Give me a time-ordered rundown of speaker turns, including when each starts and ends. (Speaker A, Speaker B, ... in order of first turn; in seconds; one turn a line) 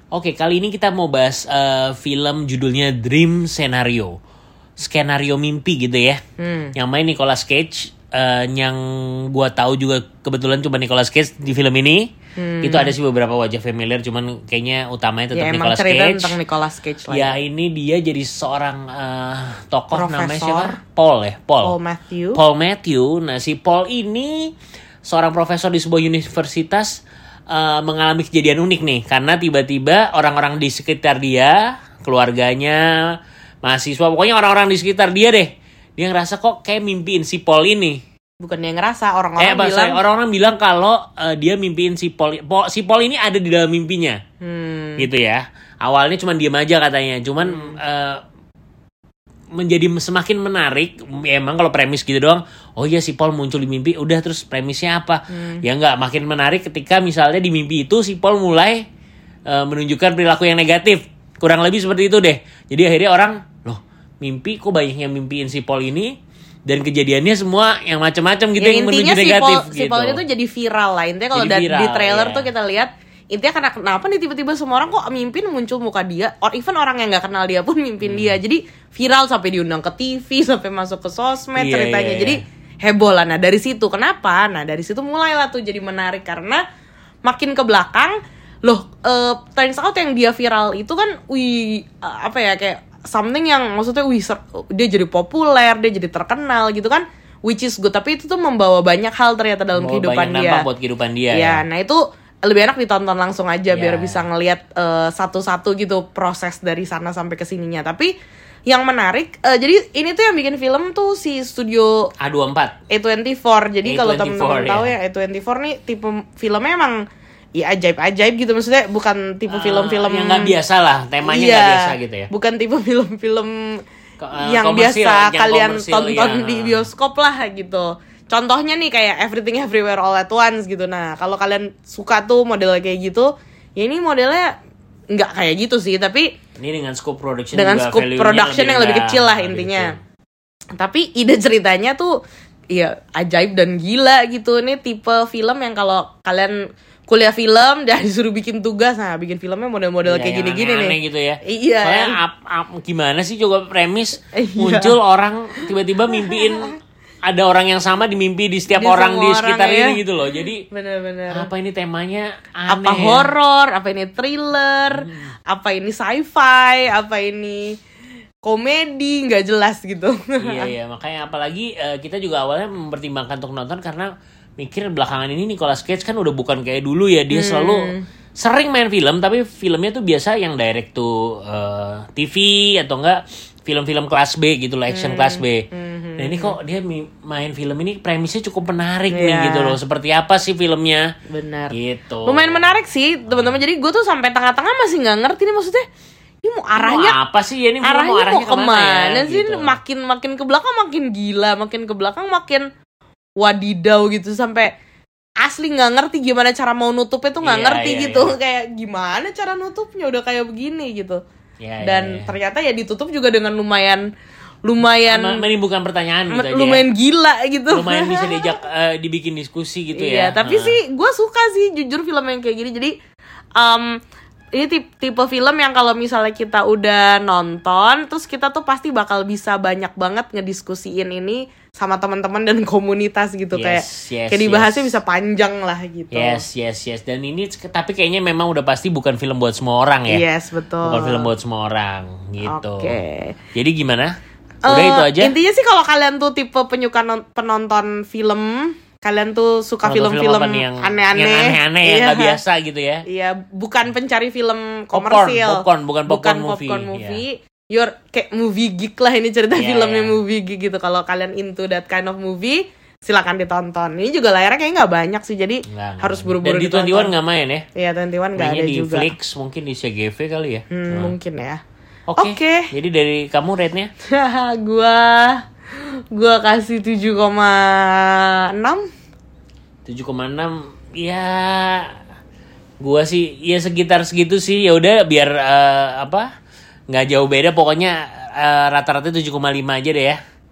Speaker A: 0.1-4.2
Speaker A: 4.8-6.2
Speaker B: 6.4-6.7
Speaker A: 6.7-12.1
Speaker B: 12.4-12.9
Speaker A: 12.6-16.4
Speaker B: 15.3-17.4
Speaker A: 17.1-21.7
Speaker B: 19.9-20.8
Speaker B: 21.6-22.4
Speaker A: 22.3-38.0
Speaker B: 38.4-40.0
Speaker A: 39.4-44.2
Speaker B: 44.4-45.1
Speaker A: 45.0-48.2
Speaker B: 47.4-47.8
Speaker A: 49.5-58.8
Speaker B: 55.3-55.6
Speaker A: 59.5-66.1
Speaker A: 66.7-70.2
Speaker B: 68.6-86.6
Speaker A: 71.3-72.5
Speaker A: 78.0-78.4
Speaker A: 81.6-82.4
Speaker B: 87.2-100.7
Speaker A: 99.7-101.6
Speaker B: 101.3-108.1
Speaker A: 103.7-104.2
Speaker B: 108.7-112.1
Speaker A: 112.2-112.7
Speaker B: 112.9-117.0
Speaker A: 113.8-114.9
Speaker B: 117.5-120.5
Speaker A: 119.5-122.3
Speaker B: 121.2-123.8
Speaker A: 124.2-126.9
Speaker B: 124.4-134.5
Speaker B: 135.1-136.3
Speaker A: 136.6-140.0
Speaker B: 137.5-139.9
Speaker B: 140.8-142.1
Speaker B: 142.7-152.2
Speaker A: 150.0-156.7
Speaker B: 154.3-155.0
Speaker B: 155.6-156.8
Speaker A: 157.2-160.6
Speaker B: 158.7-160.0
Speaker B: 160.7-161.5
Speaker A: 161.3-163.3
Speaker B: 162.7-167.8
Speaker A: 164.9-165.3
Speaker B: 168.4-170.7
Speaker A: 170.4-185.7
Speaker B: 177.3-178.0
Speaker B: 184.9-186.6
Speaker A: 186.2-191.0
Speaker B: 189.1-189.8
Speaker B: 191.3-191.7
Speaker A: 191.7-192.7
Speaker B: 192.2-195.8
Speaker A: 193.3-193.6
Speaker B: 196.4-197.2
Speaker A: 196.8-199.8
Speaker B: 197.8-202.6
Speaker B: 203.4-204.7
Speaker B: 205.4-211.2
Speaker A: 207.4-208.3
Speaker A: 211.6-212.3
Speaker B: 211.8-214.0
Speaker B: 214.6-215.4
Speaker A: 215.1-216.8
Speaker B: 216.3-218.6
Speaker A: 217.7-220.8
Speaker B: 219.9-222.9
Speaker B: 223.6-224.0
Speaker B: 224.5-236.4
Speaker A: 233.5-234.9
Speaker A: 236.1-240.2
Speaker B: 240.1-241.3
Speaker A: 240.8-242.9
Speaker B: 242.4-243.4
Speaker A: 243.5-244.1
Speaker A: 244.7-245.3
Speaker B: 244.7-252.4
Speaker A: 249.8-253.0
Speaker B: 253.1-267.1
Speaker A: 254.9-257.2
Speaker A: 259.5-260.2
Speaker A: 265.7-267.6
Speaker B: 267.7-269.1
Speaker A: 268.4-271.1
Speaker B: 270.7-271.6
Speaker A: 272.1-273.9
Speaker B: 272.2-272.7
Speaker B: 274.1-278.8
Speaker A: 279.8-281.9
Speaker A: 282.8-286.3
Speaker A: 286.9-290.2